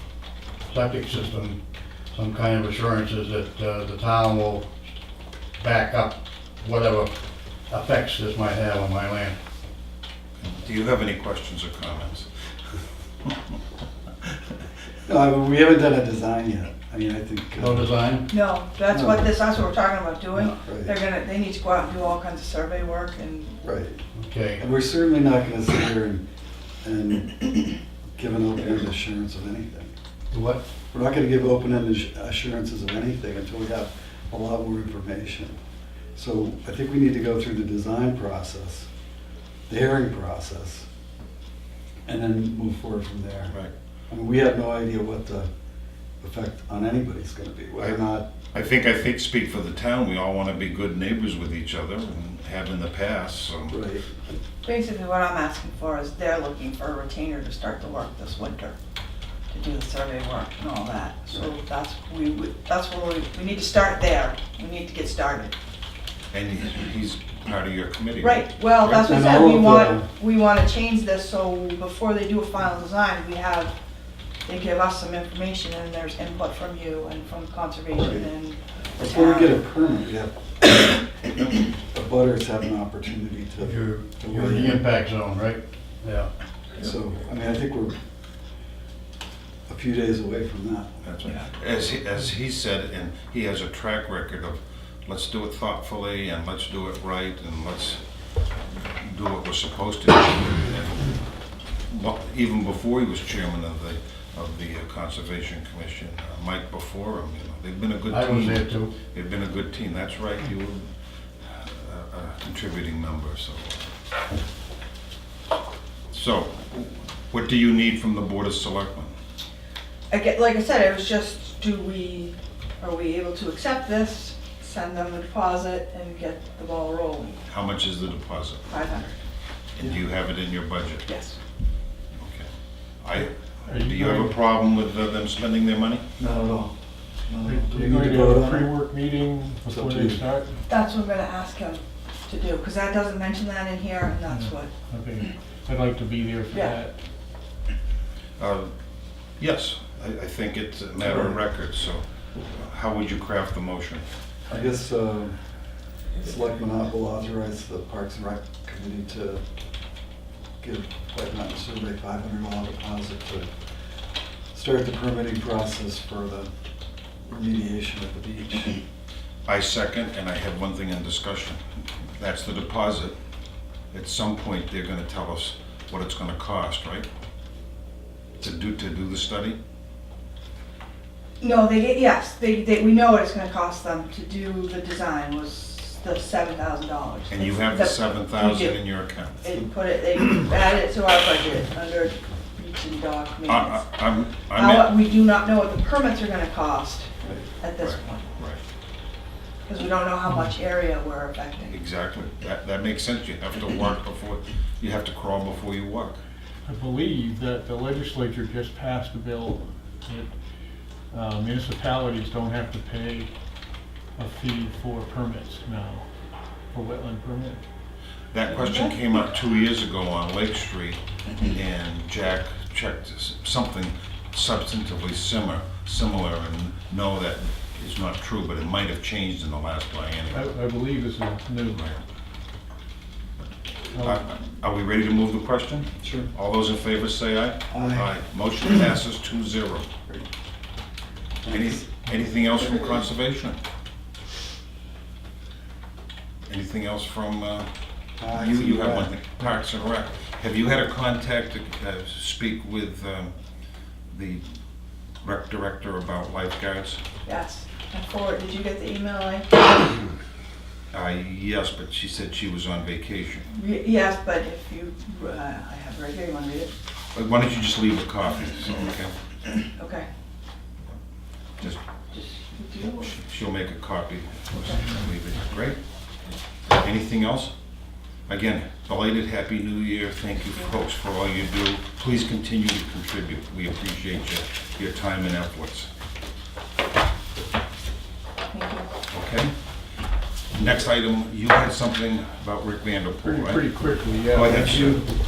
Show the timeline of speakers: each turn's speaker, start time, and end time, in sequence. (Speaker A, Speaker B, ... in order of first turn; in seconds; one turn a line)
Speaker A: 0.7-1.6
Speaker A: 2.1-4.7
Speaker A: 5.6-7.1
Speaker A: 7.7-9.4
Speaker B: 10.4-12.3
Speaker C: 15.1-17.9
Speaker A: 17.6-18.3
Speaker D: 18.3-23.5
Speaker C: 18.9-19.3
Speaker C: 20.3-20.9
Speaker C: 23.6-24.0
Speaker A: 24.1-24.6
Speaker C: 24.6-26.2
Speaker C: 26.8-29.9
Speaker A: 30.3-30.6
Speaker C: 30.9-35.5
Speaker C: 36.1-38.9
Speaker C: 39.7-40.9
Speaker C: 42.1-43.6
Speaker C: 44.1-45.5
Speaker C: 46.2-48.3
Speaker B: 48.5-53.8
Speaker C: 53.7-54.1
Speaker D: 54.6-58.8
Speaker D: 59.5-65.5
Speaker B: 66.3-69.0
Speaker D: 68.2-73.7
Speaker C: 68.9-70.0
Speaker D: 74.5-79.6
Speaker C: 78.0-78.3
Speaker C: 79.0-80.4
Speaker C: 81.9-84.8
Speaker A: 83.6-86.3
Speaker C: 86.8-88.0
Speaker C: 89.7-90.9
Speaker B: 91.0-98.0
Speaker B: 99.0-101.2
Speaker B: 101.9-110.9
Speaker A: 108.1-108.9
Speaker B: 111.4-113.8
Speaker B: 116.1-119.1
Speaker D: 120.1-127.4
Speaker B: 127.5-128.6
Speaker D: 128.7-129.2
Speaker B: 129.8-131.0
Speaker D: 131.0-131.4
Speaker B: 132.2-132.5
Speaker B: 133.0-136.0
Speaker E: 133.6-134.4
Speaker C: 136.2-136.7
Speaker C: 137.3-138.7
Speaker E: 137.4-140.6
Speaker C: 139.7-140.2
Speaker D: 140.7-144.7
Speaker E: 144.3-146.9
Speaker D: 146.5-146.8
Speaker B: 148.4-148.7
Speaker B: 149.4-154.0
Speaker C: 151.0-151.4
Speaker C: 154.5-155.4
Speaker C: 156.2-159.4
Speaker C: 160.6-163.5
Speaker C: 164.5-166.5
Speaker C: 167.3-168.8
Speaker B: 169.4-171.6
Speaker B: 172.2-173.1
Speaker B: 173.9-177.1
Speaker B: 178.4-179.6
Speaker D: 181.4-188.8
Speaker B: 187.3-189.6
Speaker D: 189.4-193.8
Speaker B: 193.5-195.0
Speaker D: 194.5-198.3
Speaker B: 197.8-198.6
Speaker D: 199.7-201.8
Speaker B: 201.7-206.2
Speaker E: 206.7-210.3
Speaker E: 211.1-213.3
Speaker E: 214.2-216.1
Speaker E: 216.7-217.6
Speaker B: 218.3-230.5
Speaker D: 218.4-219.0
Speaker E: 230.3-231.8
Speaker B: 231.7-232.0
Speaker E: 233.9-234.2
Speaker B: 234.0-239.9
Speaker C: 236.0-236.3
Speaker C: 237.7-238.1
Speaker C: 241.5-241.8
Speaker B: 241.5-243.6
Speaker B: 246.5-247.7
Speaker C: 248.2-249.1
Speaker B: 248.3-253.3
Speaker B: 254.1-254.4
Speaker B: 255.2-257.0
Speaker D: 257.2-259.8
Speaker B: 260.9-263.4
Speaker D: 263.5-266.7
Speaker B: 267.1-269.1
Speaker D: 269.7-270.1
Speaker D: 272.1-273.1
Speaker B: 273.0-275.8
Speaker B: 276.7-277.5
Speaker B: 278.3-285.9
Speaker D: 288.5-288.9
Speaker B: 289.1-289.5
Speaker B: 290.5-293.7
Speaker E: 293.2-295.1
Speaker B: 294.2-295.1